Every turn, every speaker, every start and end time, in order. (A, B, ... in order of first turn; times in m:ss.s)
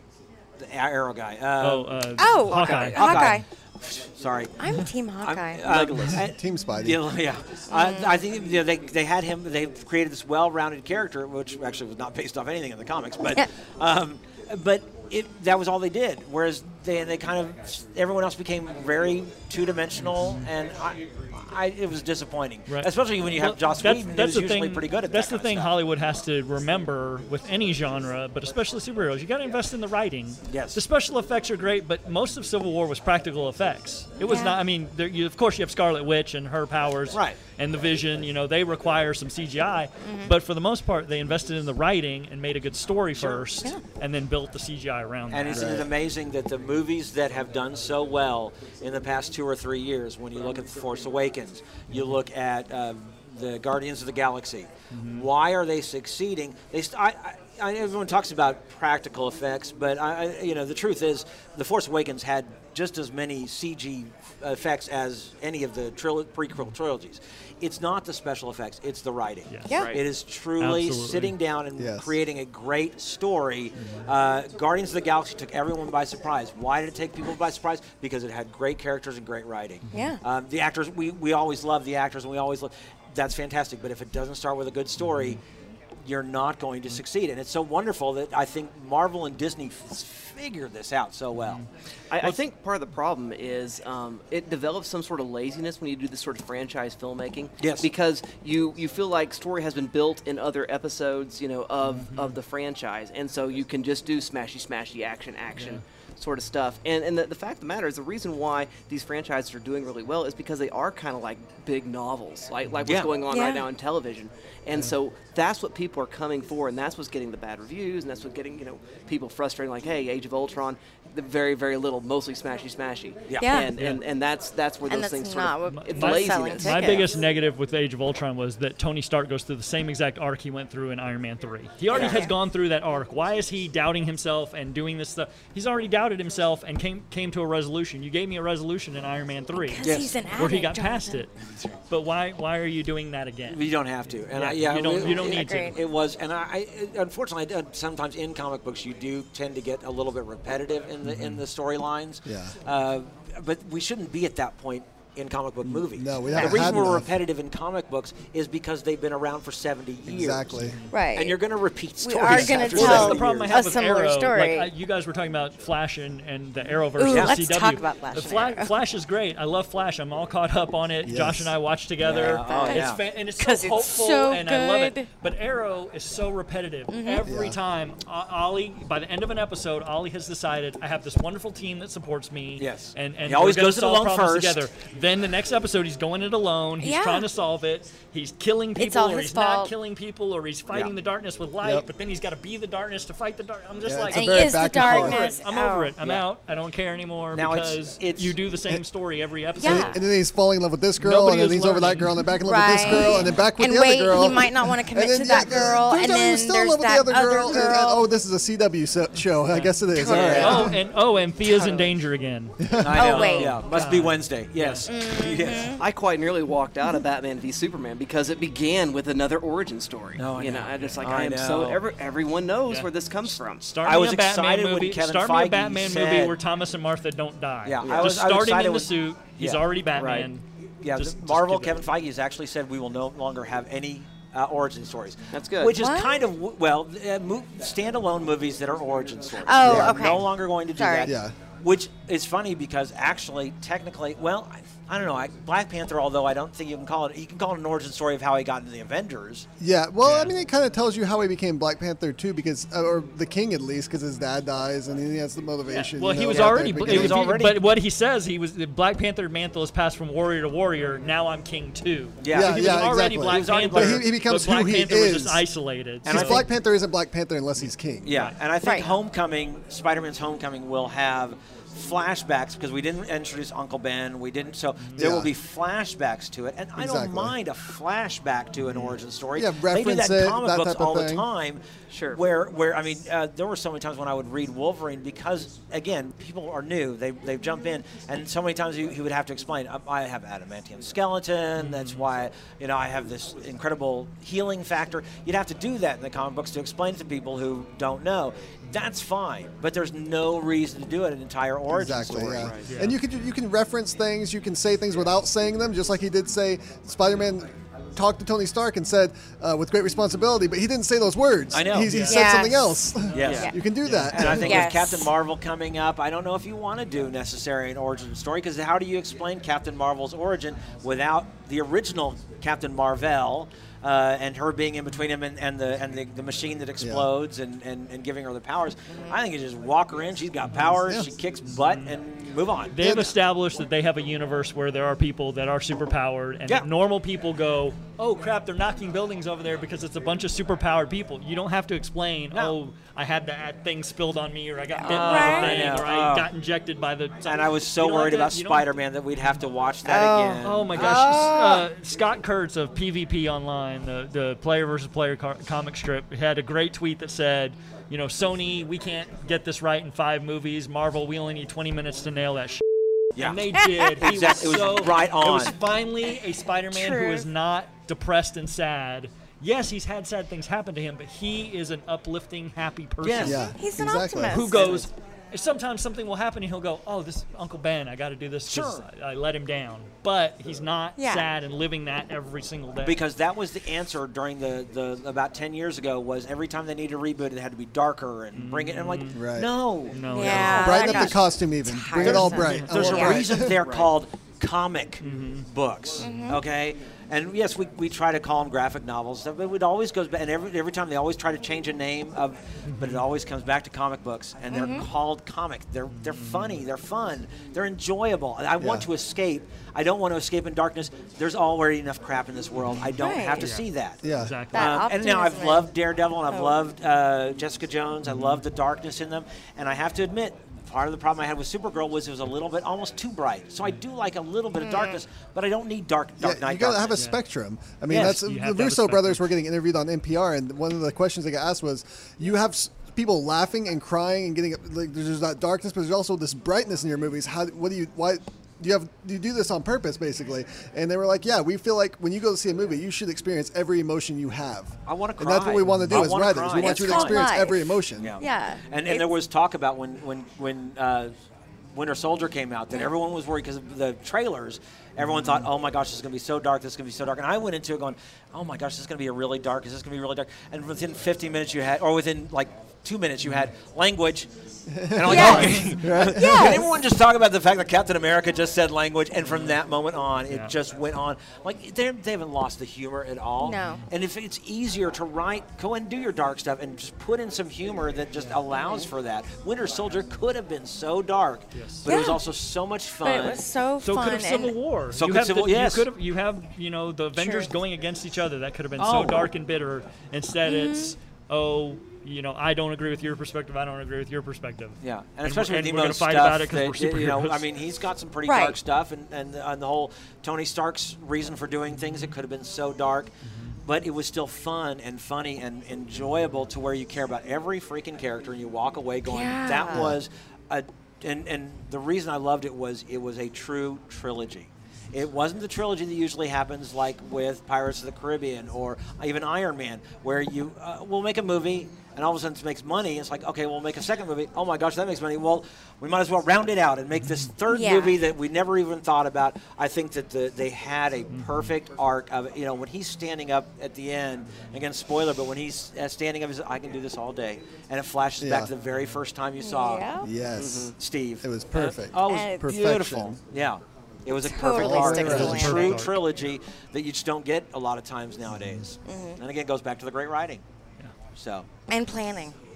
0:00.6-0:25.8 A
0:01.6-0:03.3 B
0:02.2-0:03.4 C
0:02.5-0:03.2 D
0:04.6-0:05.9 C
0:05.6-0:06.2 D
0:06.1-0:07.0 E
0:07.7-0:08.2 C
0:20.0-0:20.5 B
0:22.7-0:45.8 B
0:30.4-0:30.8 A
0:34.2-0:34.6 C
0:37.1-0:37.4 A
0:40.0-0:40.3 C
0:43.2-0:43.5 A
0:45.3-1:25.4 A
0:45.5-0:45.9 E
0:51.9-0:52.2 B
0:54.9-0:55.3 B
1:09.5-1:09.8 B
1:09.7-1:10.0 D
1:10.6-1:11.4 B
1:11.8-1:12.1 E
1:19.9-1:20.2 C
1:25.0-1:25.4 B
1:26.0-1:31.6 A
1:31.3-1:31.7 B
1:32.1-2:07.0 D
1:37.6-1:37.9 A
1:41.8-1:42.4 B
1:45.5-1:45.8 B
1:52.8-1:53.1 A
1:53.3-1:53.6 C
2:03.3-2:03.6 A
2:03.4-2:03.7 C
2:03.7-2:04.0 B
2:04.8-2:07.2 C
2:05.7-2:21.3 B
2:11.9-2:12.3 C
2:11.9-2:12.2 A
2:19.5-2:21.2 C
2:19.8-2:20.1 A
2:21.9-2:23.6 B
2:23.4-2:43.6 A
2:24.3-2:25.8 B
2:24.9-2:25.8 C
2:31.0-2:31.4 B
2:32.2-2:32.5 E
2:35.6-2:37.1 E
2:40.1-2:40.8 E
2:40.6-2:41.0 B
2:40.9-2:41.4 C
2:42.0-2:44.7 C
2:42.3-3:20.0 B
2:47.0-2:48.7 C
2:47.0-2:47.3 A
2:51.0-2:51.5 E
2:52.0-2:53.0 A
2:52.2-2:55.1 C
2:56.9-2:57.2 C
2:57.2-2:57.6 E
3:02.6-3:04.6 A
3:06.8-3:07.3 C
3:08.8-3:09.7 C
3:11.6-3:11.9 E
3:13.8-3:15.3 E
3:14.1-3:16.0 C
3:17.3-3:18.4 A
3:19.6-3:20.0 C
3:19.6-3:30.8 E
3:21.0-3:22.3 B
3:22.4-3:28.1 C
3:22.8-3:23.2 B
3:29.1-3:34.9 B
3:29.9-3:30.7 C
3:30.1-3:30.7 A
3:32.6-3:33.1 E
3:32.7-3:35.8 A
3:32.9-3:33.6 C
3:34.8-3:35.8 C
3:35.8-3:43.7 D
3:40.2-3:41.8 A
3:40.8-3:41.0 B
3:43.6-3:51.9 B
3:43.8-3:46.3 A
3:47.6-3:49.7 A
3:47.8-3:48.1 D
3:49.9-3:50.3 D
3:50.8-4:09.5 A
3:55.3-3:55.8 D
3:55.7-3:56.3 C
3:59.4-4:01.1 C
3:59.6-4:00.2 E
4:01.0-4:01.3 E
4:09.6-4:17.3 E
4:10.0-4:10.3 B
4:15.7-4:26.4 B
4:16.3-4:17.7 A
4:22.2-4:24.2 A
4:22.3-4:25.5 E
4:26.0-4:26.4 A
4:26.0-4:28.2 E
4:27.6-4:28.4 B
4:28.0-5:02.6 A
4:28.6-4:29.0 C
4:34.8-4:35.1 B
4:35.0-4:35.3 E
4:36.8-4:37.3 E
4:38.6-4:38.9 B
4:39.3-4:41.2 E
4:41.9-4:42.2 D
4:51.6-4:52.1 B
5:01.7-5:14.7 E
5:02.2-5:02.8 D
5:02.6-5:03.0 B
5:11.5-5:12.1 A
5:11.8-5:12.2 B
5:12.1-5:13.5 C
5:13.0-5:14.2 B
5:13.1-5:32.9 A
5:13.2-5:13.5 D
5:14.2-5:15.1 C
5:26.8-5:27.1 E
5:28.9-5:29.2 C
5:30.5-5:30.7 B
5:30.6-5:31.1 E
5:31.4-5:32.0 B
5:32.7-5:48.7 B
5:32.8-5:33.2 E
5:44.7-5:45.8 C
5:44.9-5:46.3 A
5:47.2-5:51.3 A
5:49.8-5:51.6 C
5:50.4-6:02.6 B
6:03.1-6:03.4 A
6:03.1-6:13.5 B
6:03.6-6:04.4 C
6:04.0-6:05.5 A
6:06.7-6:07.3 C
6:13.0-6:13.5 A
6:13.2-6:14.5 E
6:13.6-6:14.6 C
6:14.3-6:23.0 B
6:14.5-6:14.9 A
6:18.5-6:18.9 A
6:21.0-6:21.3 C
6:22.8-6:31.2 A
6:28.3-6:29.2 B
6:29.1-6:29.5 E
6:29.9-6:31.0 B
6:30.1-6:33.4 C
6:30.2-6:33.6 E
6:32.0-7:07.0 A
6:32.5-6:32.8 B
6:35.0-6:35.4 B
6:36.0-6:36.4 C
6:36.0-6:36.3 B
6:42.6-6:43.0 B
6:44.5-6:44.9 C
6:45.9-6:46.6 B
6:48.6-6:48.9 E
6:53.0-6:53.5 C
6:53.4-6:54.7 B
6:54.0-6:54.4 E
6:54.5-6:55.7 C
6:56.3-6:56.6 C
6:58.0-6:58.4 B
7:04.6-7:05.0 C
7:06.2-7:28.1 E
7:06.9-7:07.2 B
7:07.9-7:08.2 A
7:07.9-7:09.3 B
7:24.9-7:27.3 A
7:25.7-7:26.0 B
7:26.5-7:29.1 C
7:28.0-7:31.1 A
7:31.7-7:44.3 A
7:35.0-7:35.5 B
7:44.7-7:46.6 E
7:44.9-8:03.4 A
7:45.0-7:46.6 C
7:49.2-7:49.6 B
7:53.4-7:53.8 C
7:58.1-7:58.4 B
8:01.5-8:01.9 B
8:01.8-8:02.2 C
8:03.0-8:04.6 C
8:03.8-8:17.5 B
8:04.9-8:05.9 A
8:07.2-8:07.5 C
8:08.8-8:09.3 A
8:10.4-8:11.0 C
8:14.8-8:23.1 A
8:18.2-8:18.6 C
8:23.3-8:23.6 B
8:23.6-8:59.9 A
8:29.0-8:29.9 C
8:46.9-8:47.3 B
8:47.5-8:48.0 C
8:51.1-8:51.5 B
8:58.2-8:58.5 E
8:59.4-9:00.1 C
9:00.0-9:03.2 E
9:00.4-9:00.7 D
9:00.7-9:10.4 A
9:02.0-9:02.5 C
9:04.2-9:05.8 C
9:04.5-9:05.6 E
9:05.0-9:06.0 B
9:08.8-9:09.2 C
9:11.1-9:11.5 A
9:11.7-9:12.3 C